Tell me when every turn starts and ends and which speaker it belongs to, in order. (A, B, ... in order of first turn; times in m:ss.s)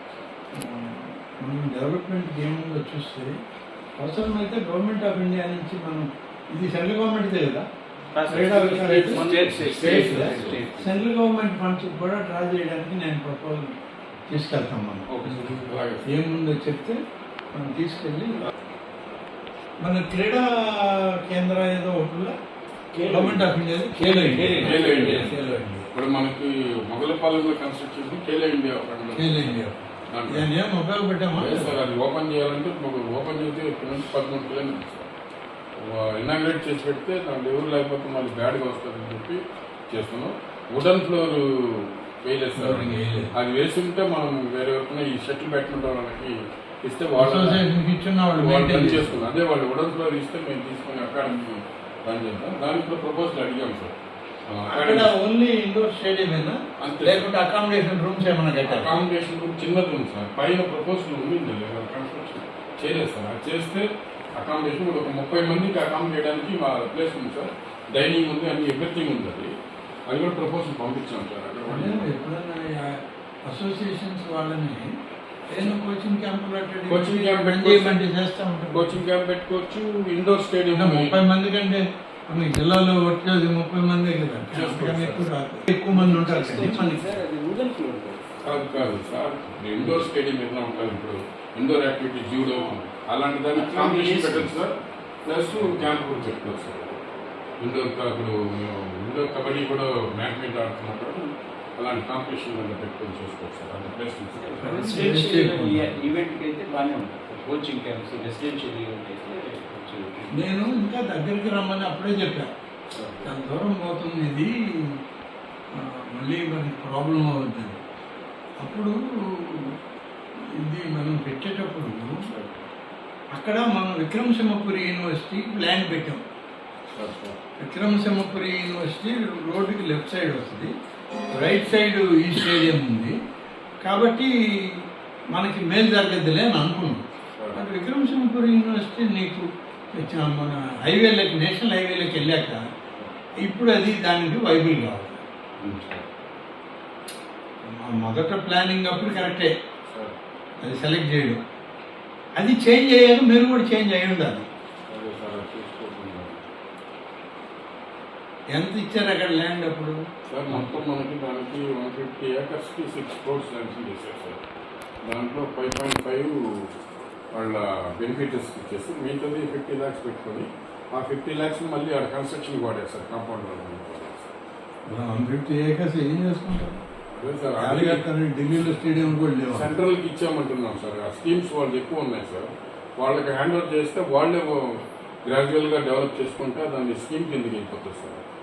0:00.6-0:03.3 A
0:04.0-0:07.6 A
0:08.1-0:11.1 B
0:08.3-0:13.7 A
0:08.5-0:10.6 C
0:14.3-0:17.0 A
0:15.1-0:15.6 B
0:15.6-0:16.0 C
0:17.5-0:18.5 A
0:19.8-0:22.3 A
0:22.9-0:25.6 B
0:23.0-0:25.9 A
0:24.6-0:25.3 C
0:25.9-0:29.6 C
0:29.1-0:31.8 A
0:30.1-0:30.4 C
0:31.4-0:35.1 C
0:35.8-0:47.6 C
0:42.6-0:43.3 A
0:47.2-0:49.3 A
0:48.3-0:53.9 C
0:54.5-0:55.1 C
0:54.7-0:58.9 A
0:56.8-0:57.3 C
0:58.6-1:09.5 C
1:10.1-1:12.1 C
1:11.7-1:14.9 A
1:15.5-1:19.0 A
1:16.9-1:18.0 C
1:18.7-1:21.2 C
1:20.7-1:27.2 A
1:24.5-1:25.3 C
1:25.9-1:28.4 B
1:28.4-1:37.0 C
1:29.8-1:30.0 B
1:33.5-1:34.4 B
1:37.6-1:44.9 C
1:44.4-1:50.7 B
1:44.6-1:45.9 A
1:50.3-1:52.5 A
1:52.9-1:53.3 C
1:53.2-1:54.5 A
1:55.8-1:57.8 A
1:58.6-1:58.9 A
2:00.6-2:02.1 A
2:02.3-2:02.6 C
2:03.3-2:06.2 A
2:06.9-2:07.4 C
2:07.6-2:10.7 A
2:11.3-2:13.1 A
2:13.8-2:14.3 A
2:15.3-2:17.0 A
2:17.5-2:19.4 A
2:20.0-2:22.6 A
2:23.4-2:25.2 A
2:25.6-2:26.0 C
2:27.6-2:29.5 A
2:29.9-2:30.2 C
2:30.6-2:31.4 A
2:32.4-2:34.5 A
2:34.9-2:36.4 C
2:38.5-2:40.0 A
2:40.3-2:44.4 C
2:40.5-2:40.8 A
2:45.0-2:46.7 C
2:47.3-2:54.3 C
2:54.9-2:56.8 A
2:57.1-2:58.0 C
2:57.6-2:59.7 A
2:59.5-3:08.2 C